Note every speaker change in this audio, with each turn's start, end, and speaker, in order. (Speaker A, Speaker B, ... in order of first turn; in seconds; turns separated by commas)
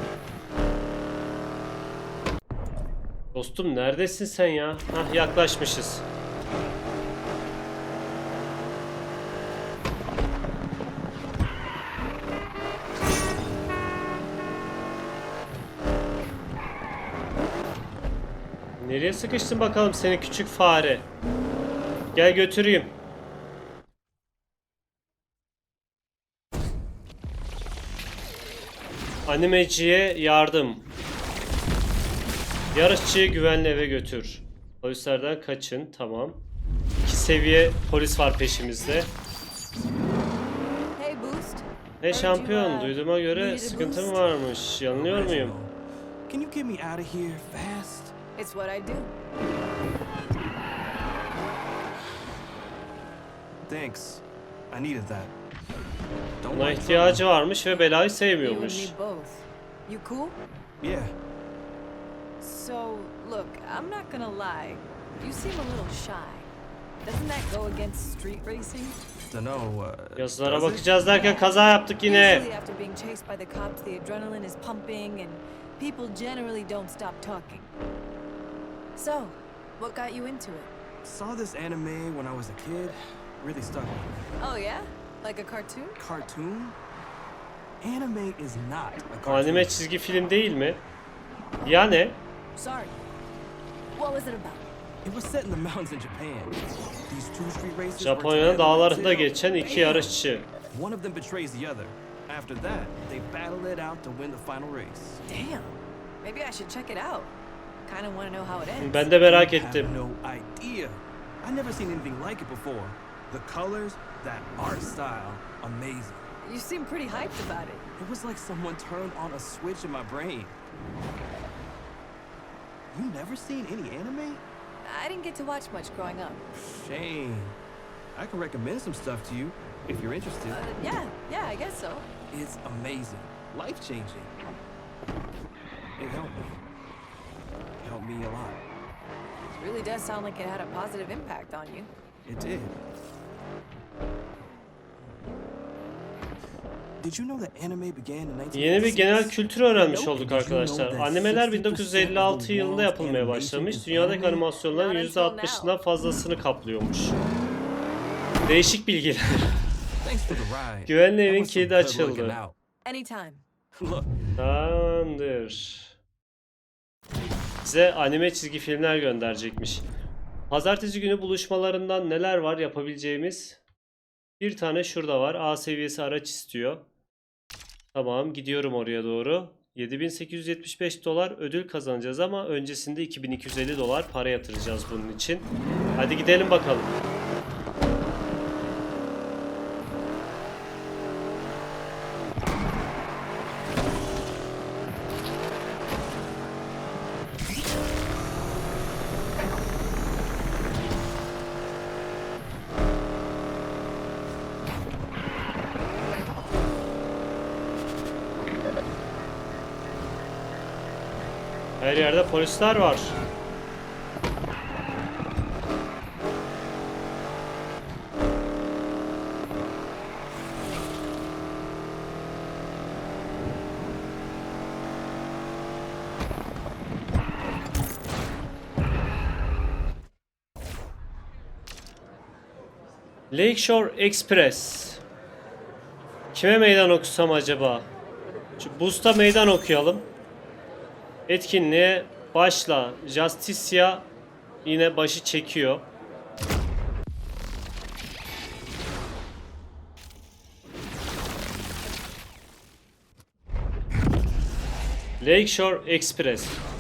Speaker A: 3.3-6.0, Speaker A: 18.8-21.1, Speaker A: 22.1-22.9, Speaker A: 29.3-30.9, Speaker A: 32.7-36.4, Speaker A: 37.0-39.1, Speaker B: 41.0-44.2, Speaker A: 42.0-45.5, Speaker C: 44.9-45.7, Speaker C: 46.3-48.1, Speaker B: 48.4-49.1, Speaker C: 53.7-55.3, Speaker C: 56.4-57.2, Speaker A: 56.5-58.9, Speaker B: 57.6-60.4, Speaker C: 60.8-61.1, Speaker B: 62.4-66.5, Speaker B: 67.0-69.0, Speaker C: 69.3-71.3, Speaker A: 70.2-72.4, Speaker B: 72.0-77.7, Speaker B: 79.0-80.7, Speaker C: 81.0-84.2, Speaker B: 84.4-86.0, Speaker C: 86.0-86.8, Speaker C: 87.8-89.8, Speaker A: 89.2-90.8, Speaker A: 91.6-92.2, Speaker B: 92.5-92.9, Speaker B: 93.9-94.7, Speaker C: 95.0-96.5, Speaker C: 97.1-100.2, Speaker A: 98.0-100.5, Speaker C: 100.7-105.2, Speaker B: 105.3-107.3, Speaker B: 107.8-109.1, Speaker A: 108.8-109.9, Speaker C: 109.2-116.3, Speaker B: 116.4-117.8, Speaker C: 118.0-120.5, Speaker C: 122.9-124.4, Speaker B: 124.8-126.4, Speaker C: 126.6-127.5, Speaker C: 128.1-130.6, Speaker B: 130.5-132.1, Speaker C: 132.3-134.3, Speaker C: 136.0-136.6, Speaker C: 137.8-138.6, Speaker B: 139.6-141.9, Speaker C: 142.3-142.8, Speaker C: 147.0-154.5, Speaker A: 148.5-157.2, Speaker B: 154.7-155.8, Speaker A: 158.5-159.5, Speaker C: 160.0-162.5, Speaker A: 160.9-162.4, Speaker B: 162.8-163.4, Speaker C: 163.8-164.1, Speaker A: 164.4-165.9, Speaker A: 167.6-169.8, Speaker A: 170.5-173.6, Speaker A: 174.4-176.8, Speaker A: 177.9-186.9, Speaker A: 211.8-213.2, Speaker A: 233.3-235.0, Speaker A: 236.3-237.9, Speaker A: 238.6-240.1, Speaker A: 241.3-244.1, Speaker A: 244.6-245.9, Speaker A: 255.2-256.6